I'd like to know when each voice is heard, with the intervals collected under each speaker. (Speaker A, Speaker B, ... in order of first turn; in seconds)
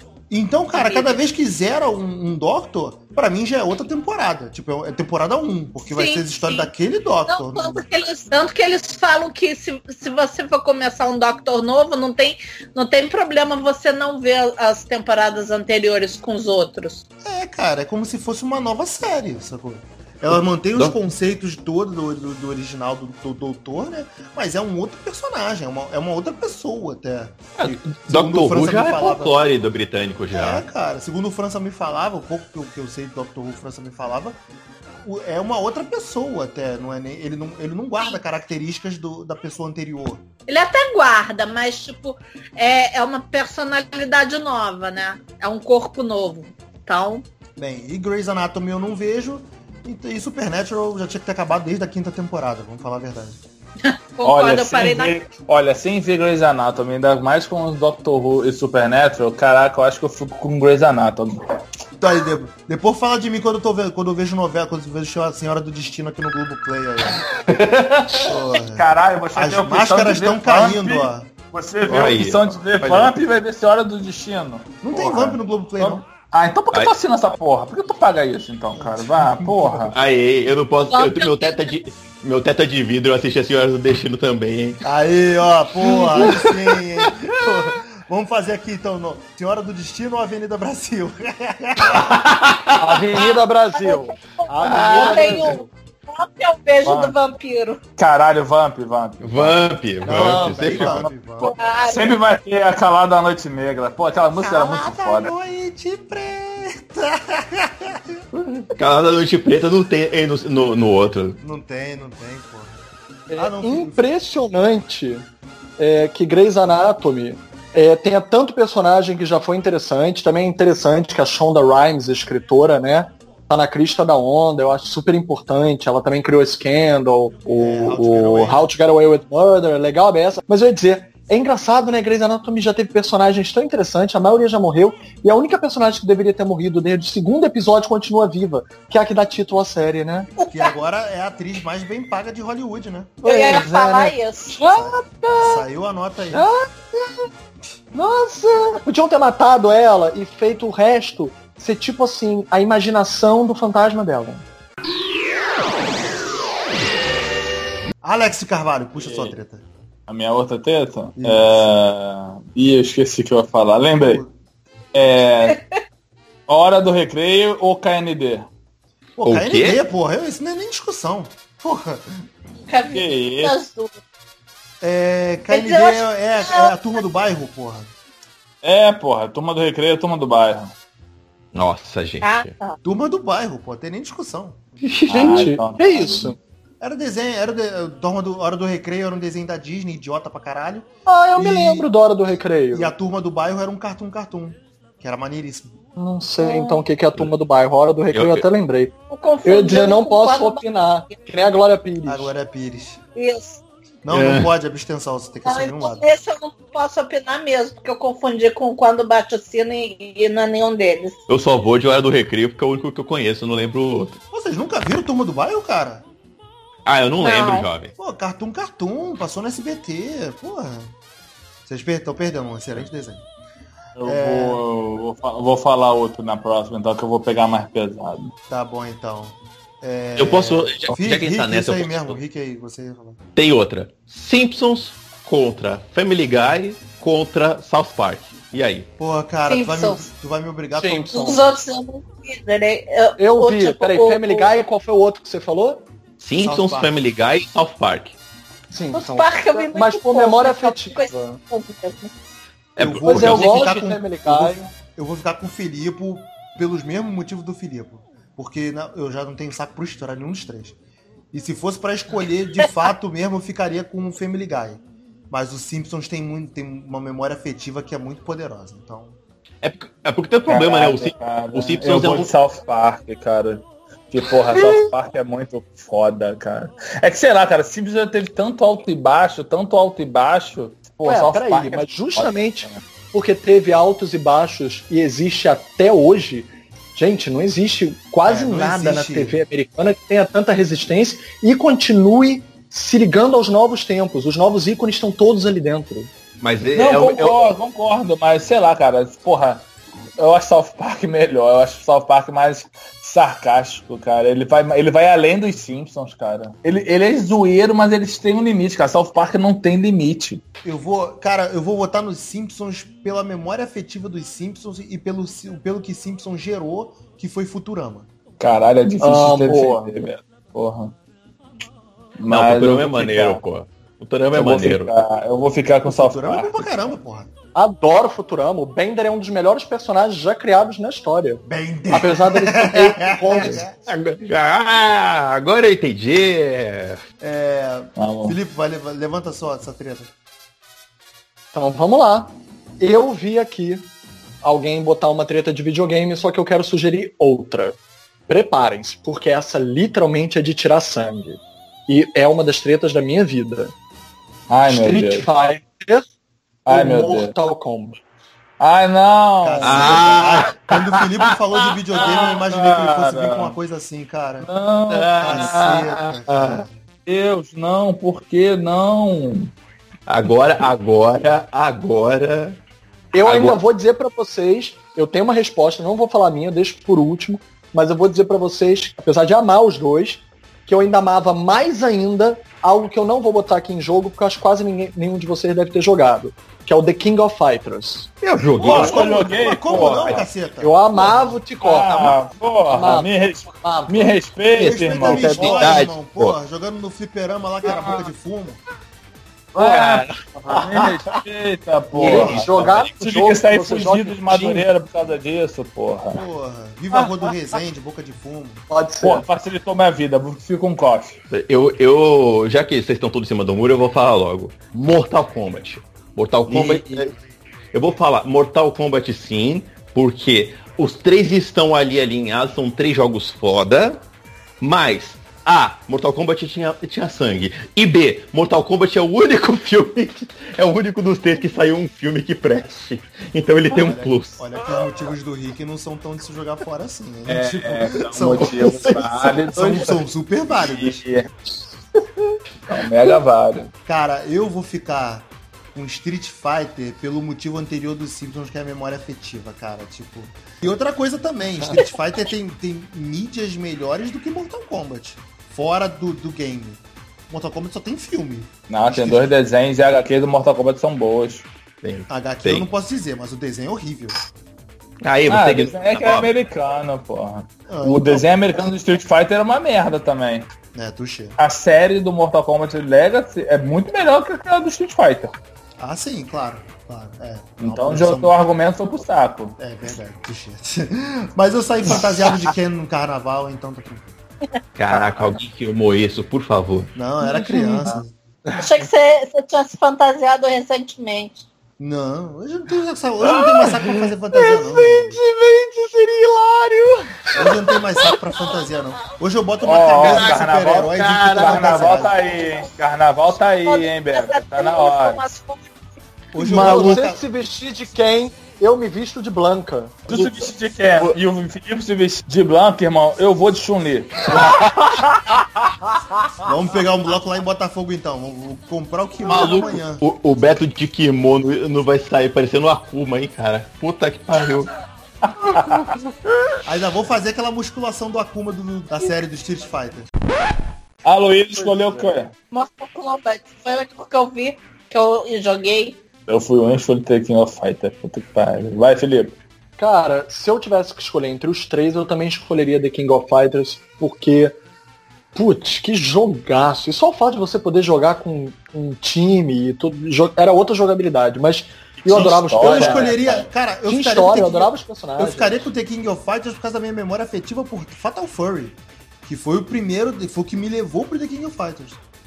Speaker A: 0.3-7.8, 17.2-29.4, 30.3-34.4, 35.0-40.2, 47.6-53.4, 62.0-67.2, 68.2-71.3, 74.8-76.0, 78.7-79.9, 84.8-92.1, 100.0-101.5, 104.8-108.2, 111.4-112.8, 113.4-114.1, 127.5-128.7, 140.4-143.2, 144.7-146.4, 158.0-159.6, 161.2-161.7, 164.0-164.3, 169.2-172.1, 174.8-177.9, 182.8-184.6, 186.8-191.9, 192.7-195.8, 202.0-203.0, 204.0-206.1, 214.3-216.0, 218.0-220.9, 221.7-223.2, 224.0-224.6, 228.5-233.2, 239.0-241.3, 246.4-246.9, 252.8-260.8, 261.3-269.2, 288.2-289.4, 310.6-318.1, 325.8-327.3, 331.4-333.7, 337.2-340.1, 359.4-364.5, 365.2-366.7, 388.6-391.3, 394.6-398.6, 402.0-402.4, 406.1-408.6, 433.7-441.0, 443.9-459.3, 462.1-464.2, 467.7-468.6, 470.7-471.4, 475.8-478.4, 479.6-484.1, 486.9-488.1, 491.8-495.2, 497.4-502.2, 506.3-507.2, 516.4-520.0, 526.6-530.1, 552.1-562.0
Speaker B: 0.7-1.2, 5.8-6.7, 7.3-17.0, 40.5-47.2, 53.8-55.1, 80.8-81.6, 93.2-97.8, 101.5-102.1, 104.4-104.9, 140.4-140.7, 143.2-144.6, 165.5-165.8, 172.7-174.0, 175.5-177.0, 182.2-182.8, 196.4-196.8, 199.1-201.2, 203.2-203.6, 205.4-211.2, 217.2-217.7, 239.5-240.1, 241.1-244.5, 248.9-252.1, 488.6-491.4, 503.6-505.8, 532.5-536.0
Speaker C: 27.6-30.6, 67.4-68.3, 71.8-73.1, 79.9-84.8, 86.1-86.5, 91.9-93.0, 94.6-95.4, 99.2-101.0, 108.7-111.4, 169.2-169.8, 181.5-182.5, 184.8-185.5, 198.1-198.4, 204.1-204.5, 211.3-214.2, 216.8-217.9, 230.2-232.2, 233.3-238.9, 246.2-248.2, 252.8-253.6, 269.6-272.3, 296.4-297.5, 322.3-324.9, 333.9-337.0, 359.6-360.8, 364.9-366.6, 370.1-372.6, 373.2-373.6, 388.2-389.1, 389.8-390.3, 395.1-396.4, 400.5-400.9, 402.2-403.0, 411.3-417.1, 417.7-424.0, 424.6-434.8, 438.4-439.3, 461.8-462.7, 465.0-466.3, 484.8-486.9, 514.3-514.7, 519.2-524.7, 525.5-525.8
Speaker D: 54.2-61.5, 68.7-80.0, 96.8-97.1, 98.0-99.6, 100.2-105.3, 158.9-159.3, 160.1-164.2, 164.9-165.6, 166.5-168.5, 172.9-173.6, 178.6-180.7, 185.1-186.3, 224.0-228.3, 270.5-282.8, 296.7-310.4, 318.4-320.9, 322.2-323.4, 324.3-326.9, 337.9-338.4, 354.5-355.3, 356.6-357.3, 358.6-360.3, 361.9-363.6, 364.4-365.6, 367.1-369.5, 388.6-390.2, 391.6-395.6, 397.6-398.0, 399.6-406.2, 409.0-411.2, 437.3-440.0, 440.5-441.3, 442.7-443.7, 458.7-461.4, 465.3-470.5, 471.4-475.3, 477.6-479.6, 499.6-505.2, 510.1-514.3, 525.4-525.9, 531.0-532.3, 536.3-539.3, 552.0-553.4
Speaker E: 92.8-95.7, 113.3-115.2, 115.8-140.3, 143.2-145.6, 146.3-147.1, 147.9-154.4, 185.1-186.4, 191.1-192.9, 195.9-202.3, 240.7-241.4, 243.2-245.8, 248.7-251.4, 253.0-254.7, 281.0-296.1, 319.0-319.9, 327.5-333.7, 341.5-343.9, 344.4-347.8, 348.3-353.7, 354.7-356.1, 356.7-358.0, 373.1-388.1, 390.6-392.2, 392.7-394.1, 394.8-395.8, 399.6-400.2, 401.9-404.6, 408.7-409.2, 416.5-417.1, 487.2-488.6, 493.2-499.1, 500.0-502.0, 506.4-510.1, 531.6-532.1, 539.8-544.6, 545.3-555.7